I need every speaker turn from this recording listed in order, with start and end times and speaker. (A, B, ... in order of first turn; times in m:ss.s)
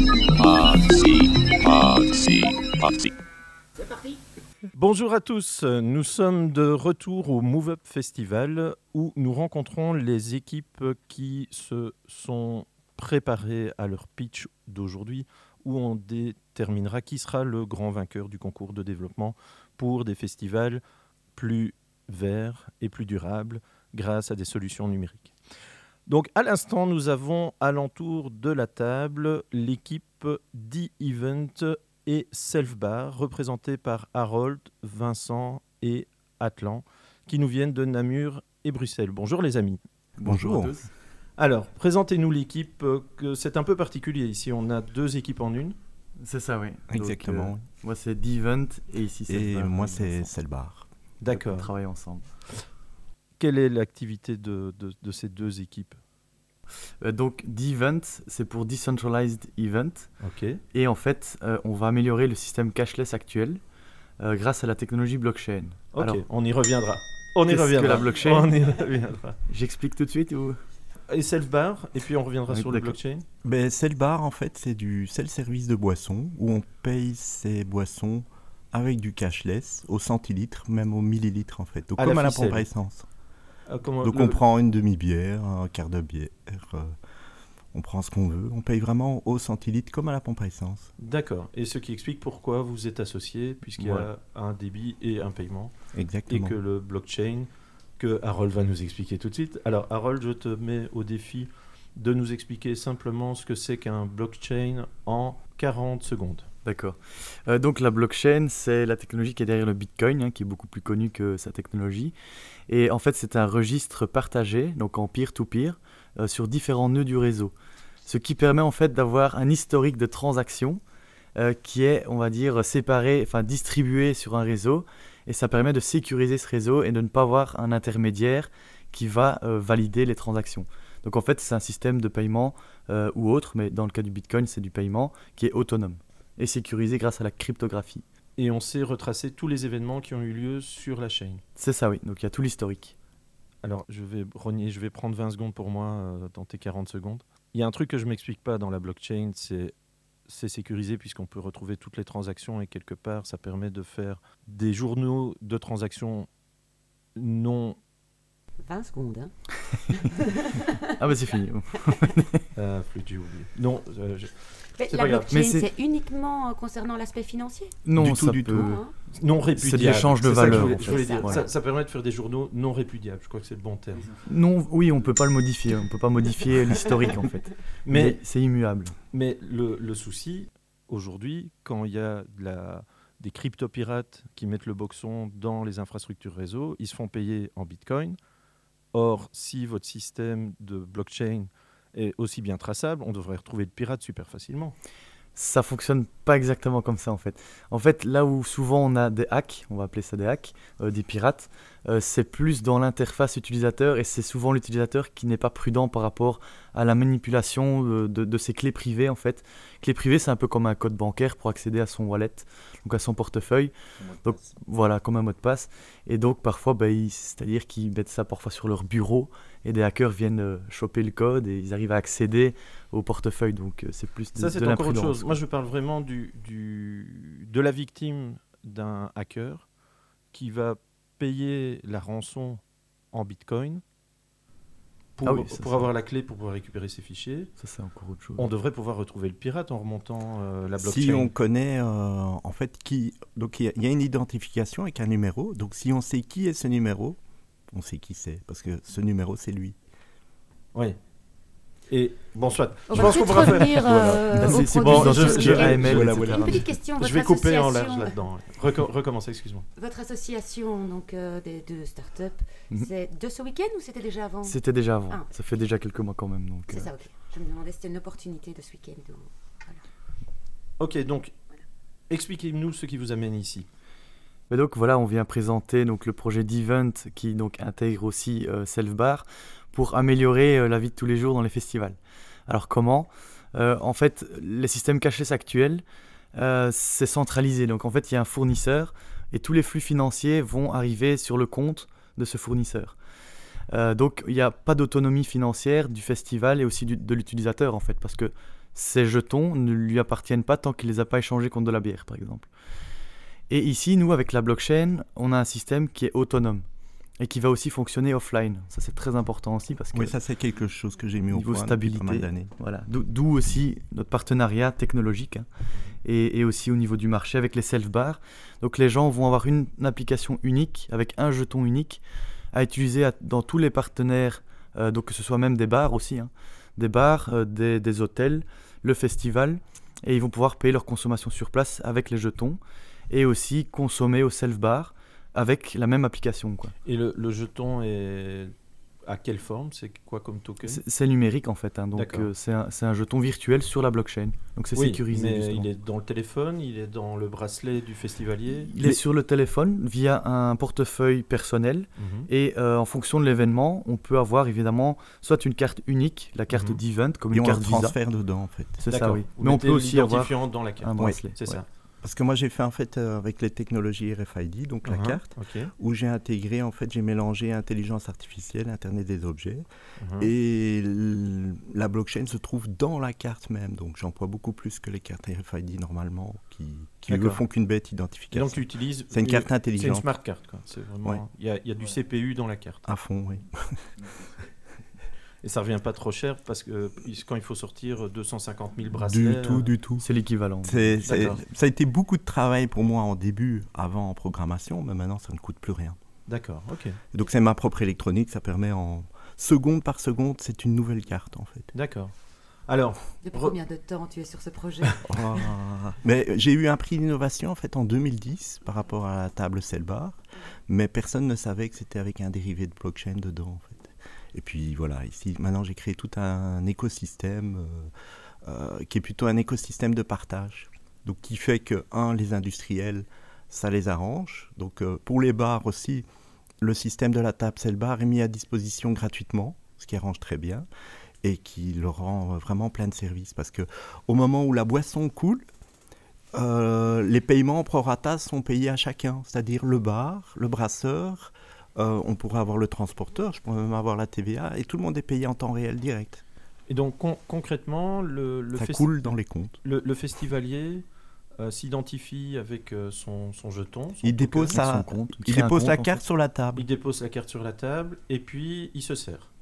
0:00.3-0:03.1 A
0:04.7-0:20.8 B
0:21.3-0:25.3 B
0:26.1-0:39.8 B
0:40.2-0:40.9 C
0:40.2-0:40.8 D
0:41.4-0:45.8 B
0:46.2-0:50.3 C
0:46.9-0:47.6 D
0:49.3-0:50.9 D
0:51.2-0:51.7 B
0:51.3-0:52.2 C
0:53.4-0:56.0 B
0:57.0-1:00.1 C
1:00.2-1:00.6 B
1:00.7-1:03.6 C
1:04.2-1:06.2 C
1:05.9-1:09.4 B
1:07.5-1:08.5 C
1:09.5-1:10.6 C
1:11.1-1:13.2 B
1:12.5-1:13.0 C
1:13.4-1:23.0 D
1:22.0-1:22.6 B
1:23.7-1:24.4 B
1:24.0-1:26.9 D
1:27.7-1:30.9 D
1:31.0-1:35.7 B
1:33.8-1:34.1 C
1:35.9-1:36.6 D
1:36.3-1:37.5 B
1:38.0-1:46.5 B
1:46.6-1:52.1 C
1:52.7-1:57.5 C
1:58.0-2:00.8 C
2:01.4-2:18.0 C
2:18.4-2:21.4 B
2:21.6-2:22.9 C
2:23.6-2:29.7 B
2:30.3-2:36.3 B
2:37.2-2:37.8 B
2:38.6-2:39.3 E
2:39.9-2:40.8 E
2:41.0-2:42.5 C
2:42.6-2:45.4 B
2:44.8-2:47.8 E
2:45.3-2:45.7 C
2:47.8-2:48.8 C
2:48.0-2:48.7 D
2:48.5-2:48.9 E
2:49.1-2:54.1 B
2:49.6-2:51.5 C
2:50.6-2:51.5 E
2:54.2-2:58.9 C
2:57.8-2:58.2 B
2:59.1-3:08.2 B
3:08.9-3:14.8 B
3:15.3-3:45.4 C
3:44.4-3:49.6 B
3:50.3-3:52.6 B
3:53.1-3:53.8 B
3:55.2-3:57.5 B
3:55.2-3:55.9 C
3:57.6-3:58.5 C
3:58.4-4:01.3 B
4:00.8-4:07.2 D
4:07.7-4:09.8 D
4:11.9-4:16.4 B
4:12.9-4:18.1 E
4:12.9-4:16.7 C
4:15.7-4:16.6 D
4:17.0-4:19.6 B
4:19.8-4:24.6 E
4:24.4-4:26.9 C
4:26.7-4:29.8 E
4:30.8-4:31.3 B
4:32.1-4:33.7 B
4:34.5-4:53.0 C
4:53.7-5:02.5 C
5:03.5-5:06.6 C
5:07.2-5:10.2 C
5:09.9-5:12.5 D
5:11.3-5:15.5 C
5:16.0-5:36.7 C
5:36.8-5:38.5 B
5:39.0-5:40.8 B
5:40.6-5:45.7 C
5:41.9-5:42.3 B
5:44.7-5:48.7 B
5:48.6-5:58.0 C
5:52.0-5:52.3 B
5:56.5-5:56.8 B
5:57.3-5:58.8 D
5:58.8-6:01.6 C
5:58.9-6:01.6 B
6:02.0-6:09.6 D
6:04.8-6:05.7 B
6:10.0-6:10.3 B
6:10.2-6:20.1 D
6:17.1-6:17.4 B
6:18.3-6:22.8 B
6:22.8-6:23.8 D
6:25.4-6:29.7 B
6:29.0-6:30.0 D
6:30.0-6:31.1 C
6:30.6-6:36.0 D
6:31.1-6:31.4 B
6:36.3-6:37.0 B
6:37.1-6:41.7 D
6:41.7-6:42.1 B
6:42.7-6:43.6 B
6:43.2-6:45.0 E
6:45.0-6:50.2 D
6:50.7-6:57.9 D
6:58.4-7:06.0 D
7:06.6-7:10.7 D
7:11.2-7:15.4 D
7:16.3-7:26.2 D
7:26.7-7:29.1 B
7:28.5-7:29.6 D
7:29.6-7:30.8 B
7:31.4-7:34.6 B
7:34.0-7:36.6 D
7:34.5-7:36.0 C
7:36.5-7:39.3 B